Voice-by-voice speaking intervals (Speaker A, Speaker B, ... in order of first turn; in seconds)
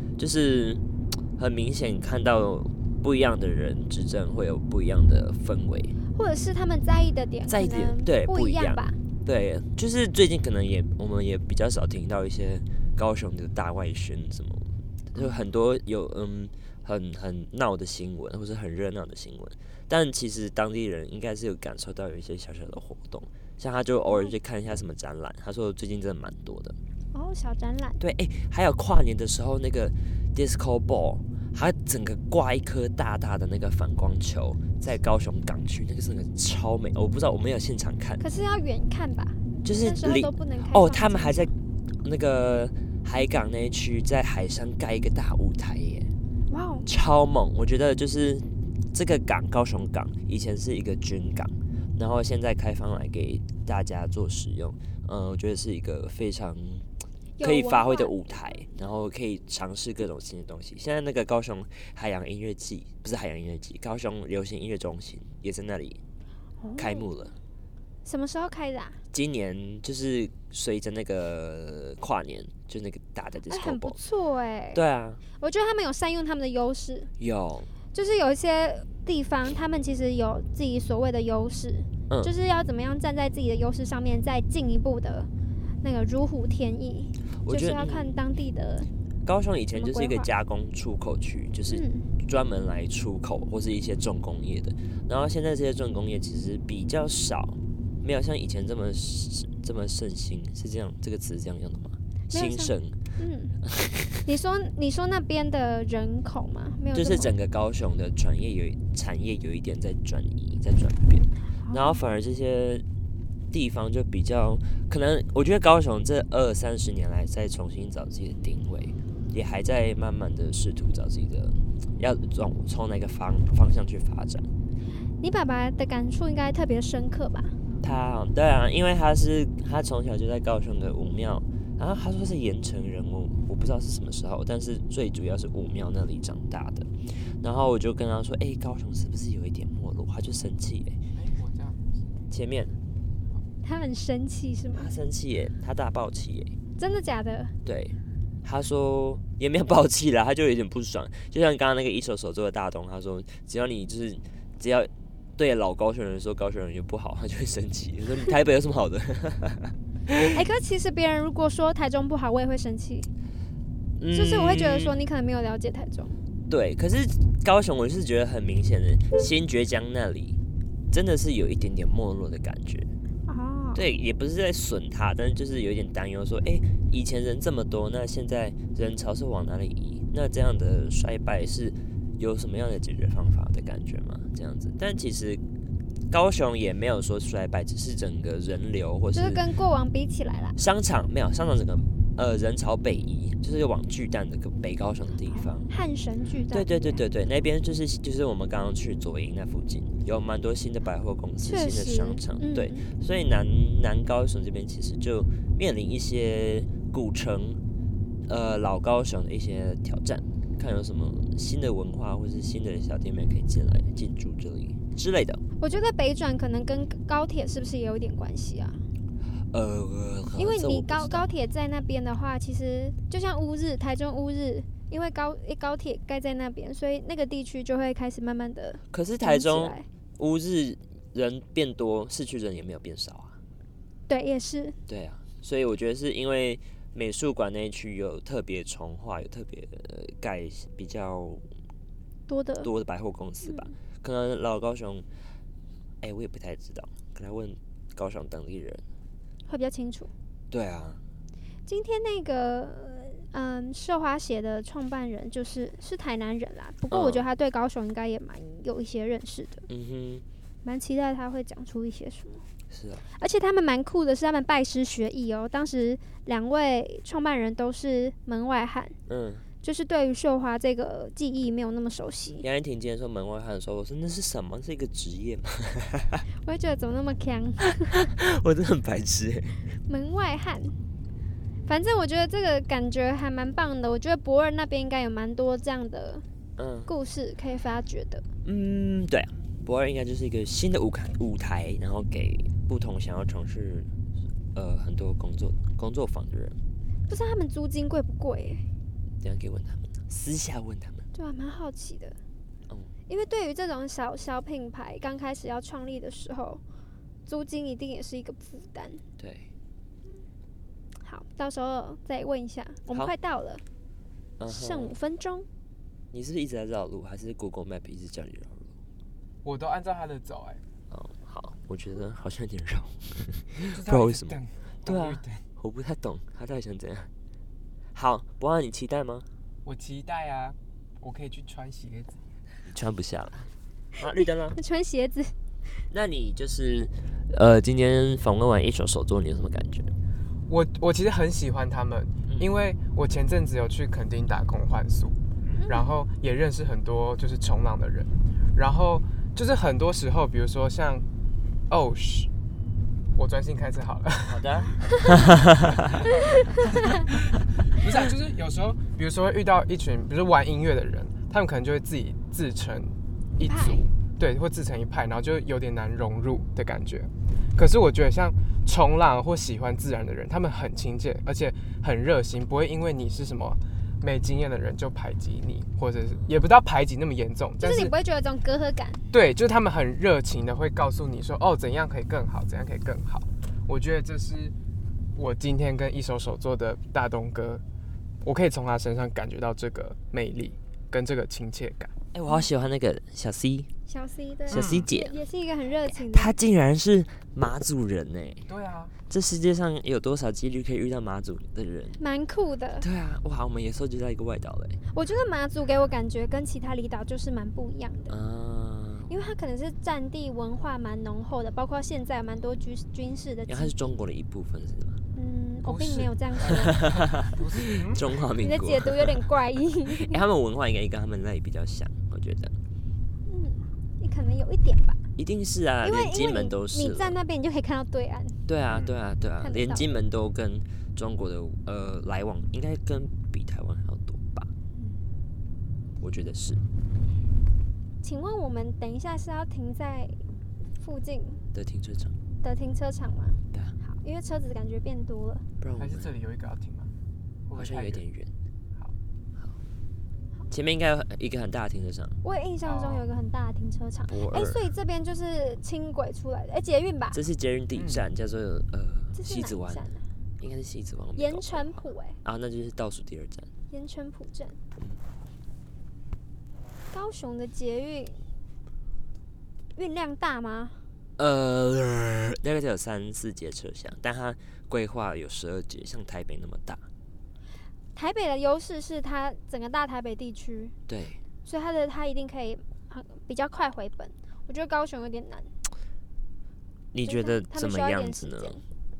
Speaker A: 0.2-0.8, 1.4-6.0, 7.5-26.8, 28.0-38.2, 39.6-46.1, 46.9-56.9, 57.4-66.0, 66.8-67.3, 69.1-74.0, 74.7-75.2, 77.2-77.7, 87.5-88.2, 89.2-103.0, 103.6-104.3, 106.9-112.8, 113.5-124.5, 127.8-141.0, 142.3-142.8, 144.7-146.5, 147.7-160.3, 164.0-165.0, 166.5-170.4, 170.9-172.9, 173.8-185.4, 186.1-189.4, 190.6-195.7, 196.5-207.6, 208.3-215.4, 219.5-221.3, 228.9-233.4, 234.9-241.4, 242.6-245.1, 246.0-248.8, 250.5-251.0, 256.9-257.3, 259.7-260.2, 262.7-263.1, 269.1-269.4, 272.4-276.2, 277.8-279.6, 286.6-286.9, 288.4-293.9, 294.5-296.6, 299.2-301.1, 309.2-309.5, 314.4-314.9, 316.1-318.7, 320.9-327.1, 327.9-329.3, 332.7-333.4, 334.0-334.6, 335.9-339.9, 354.3-355.7, 392.1-393.7, 394.5-395.2, 395.9-398.5, 399.1-402.0, 402.8-404.8, 408.1-409.1, 413.5-415.0, 416.5-419.3, 419.9-422.5, 425.2-427.2, 428.5-434.5, 436.0-436.6, 441.5-442.1, 445.6-446.1, 447.6-448.3, 450.5-452.1, 454.1-454.6, 457.1-463.5, 471.2-476.8, 480.9-481.2, 486.9-488.6
Speaker B: 6.2-9.0, 15.2-15.5, 27.1-28.0, 38.2-41.5, 46.5-46.9, 57.4-58.2, 66.6-67.1, 68.0-69.0, 73.5-74.8, 75.4-77.1, 77.9-85.3, 85.8-88.9, 89.8-90.3, 91.7-92.1, 102.3-103.5, 104.3-107.3, 111.7-112.0, 125.2-127.6, 143.6-144.9, 146.8-147.5, 160.2-163.1, 164.1-166.2, 173.3-173.8, 189.1-190.6, 195.3-197.0, 201.4-202.9, 215.6-218.8, 220.3-229.9, 234.1-234.8, 242.3-242.7, 249.5-250.1, 251.7-259.7, 260.6-262.4, 263.1-269.0, 269.6-272.5, 276.4-278.1, 279.9-280.8, 281.7-286.2, 286.9-288.2, 297.1-298.7, 301.1-302.2, 303.1-306.6, 307.3-309.0, 311.0-313.6, 314.5-315.5, 334.5-335.4, 345.6-345.9, 363.4-363.9, 377.6-379.1, 393.9-396.4, 402.0-402.9, 404.9-408.1, 409.1-413.8, 415.1-416.8, 418.4-420.2, 423.3-425.0, 425.8-428.4, 429.4-429.9, 434.8-435.0, 438.0-440.2, 440.8-441.4, 442.4-445.4, 452.2-457.2, 459.1-460.0, 461.2-462.2, 463.7-464.6, 466.9-468.2, 469.8-470.8, 477.9-480.7, 481.4-485.5, 487.1-488.6
Speaker C: 141.1-142.0, 319.4-320.6, 323.7-325.4, 329.6-332.2, 340.5-345.2, 345.7-351.1, 351.7-352.3, 353.2-354.7, 356.7-357.0, 357.7-377.9, 379.1-384.5, 385.2-387.6, 388.2-391.9, 394.5-394.9, 398.5-398.9, 415.6-418.1, 445.7-446.9, 447.5-448.0, 452.6-453.1, 457.7-458.1